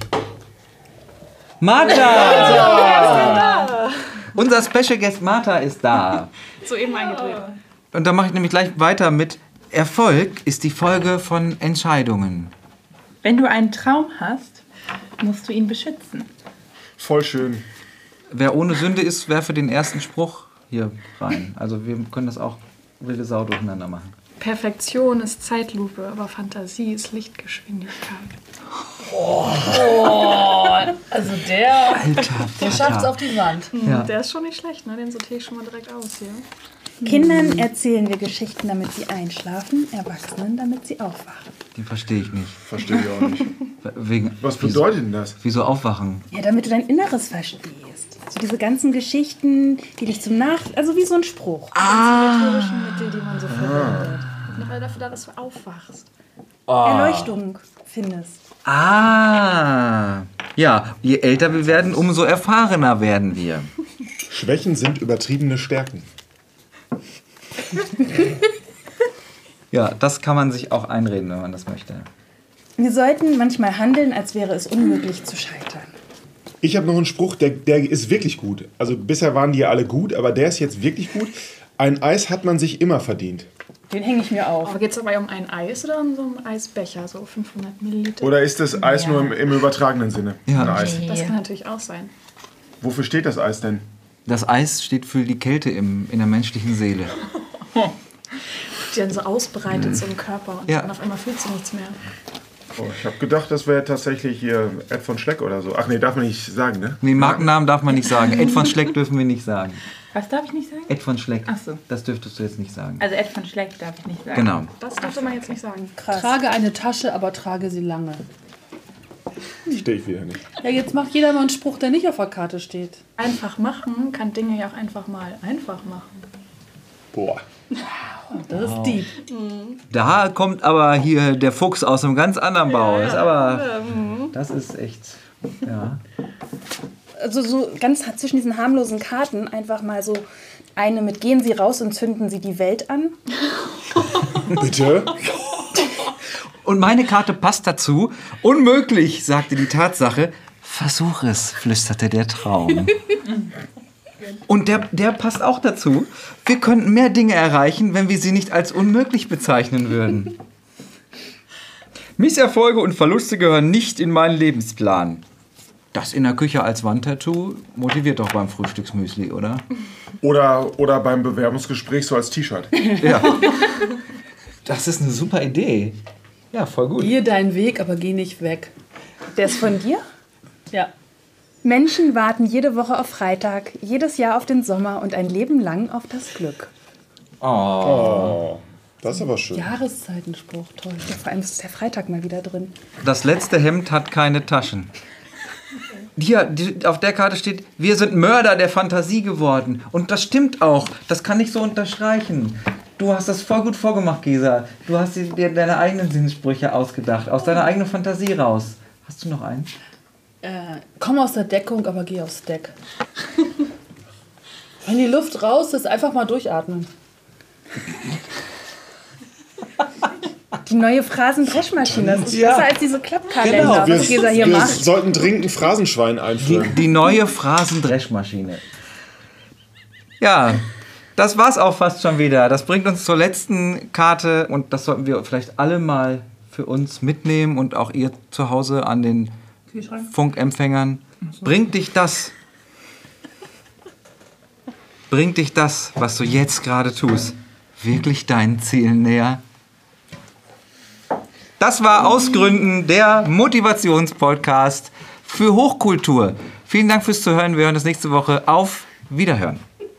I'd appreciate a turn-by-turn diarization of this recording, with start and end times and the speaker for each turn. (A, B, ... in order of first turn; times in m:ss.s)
0:01.6-0:03.7 A
0:02.4-0:03.9 B
0:04.3-0:06.3 A
0:06.6-0:07.6 B
0:07.9-0:12.5 A
0:13.2-0:14.6 C
0:15.2-0:16.3 C
0:17.0-0:17.6 D
0:18.3-0:24.1 A
0:24.4-0:28.3 B
0:29.0-0:33.7 E
0:31.9-0:33.3 A
0:33.7-0:36.4 B
0:33.8-0:34.1 A
0:37.0-0:41.5 F
0:37.0-0:37.5 E
0:41.7-0:42.6 A
0:42.6-0:43.6 D
0:43.8-0:46.2 A
0:44.4-0:45.4 D
0:46.3-0:51.8 F
0:51.7-0:53.0 A
0:51.8-0:56.1 B
0:53.6-0:54.1 D
0:53.7-0:54.2 A
0:56.7-0:57.3 A
0:56.8-0:58.4 F
0:58.6-1:03.7 A
1:04.3-1:06.1 D
1:09.7-1:12.1 A
1:12.8-1:15.9 F
1:16.6-1:23.5 D
1:23.9-1:24.8 F
1:24.6-1:28.4 B
1:28.2-1:31.0 D
1:28.7-1:29.3 C
1:30.5-1:31.0 A
1:30.5-1:31.4 C
1:31.0-1:32.1 B
1:32.8-1:33.8 D
1:34.2-1:37.2 A
1:38.8-1:42.0 B
1:42.8-1:47.5 D
1:47.0-1:49.8 A
1:50.1-1:51.8 C
1:50.9-1:53.0 A
1:53.0-1:54.6 C
1:54.3-1:54.7 A
1:54.8-1:56.0 B
1:56.0-1:58.2 E
1:56.0-1:56.3 F
1:59.6-2:00.5 D
2:00.6-2:03.0 E
2:03.2-2:06.2 B
2:07.1-2:07.4 D
2:08.3-2:09.1 E
2:08.5-2:09.0 A
2:09.2-2:09.8 B
2:09.9-2:16.0 A
2:12.6-2:14.3 B
2:17.2-2:20.2 F
2:20.8-2:23.1 F
2:24.5-2:25.2 D
2:26.6-2:33.0 A
2:34.5-2:40.4 A
2:42.2-2:45.2 A
2:45.9-2:49.6 A
2:50.2-2:52.8 D
2:53.0-2:53.9 A
2:54.6-2:56.0 A
2:56.5-2:57.1 A
2:57.0-2:58.7 E
2:59.3-3:00.0 F
3:01.6-3:06.7 F
3:07.4-3:08.4 A
3:07.8-3:09.7 D
3:09.5-3:11.1 E
3:11.1-3:12.7 F
3:13.0-3:14.9 A
3:16.2-3:29.7 A
3:30.4-3:32.7 E
3:34.8-3:36.9 E
3:40.6-3:44.8 F
3:42.3-3:42.7 A
3:43.4-3:44.4 A
3:43.5-3:46.8 D
3:44.0-3:44.8 E
3:46.4-3:48.6 A
3:50.2-3:50.6 A
3:51.2-3:59.3 A
3:59.9-4:02.3 A
4:05.1-4:09.4 A
4:11.6-4:19.6 A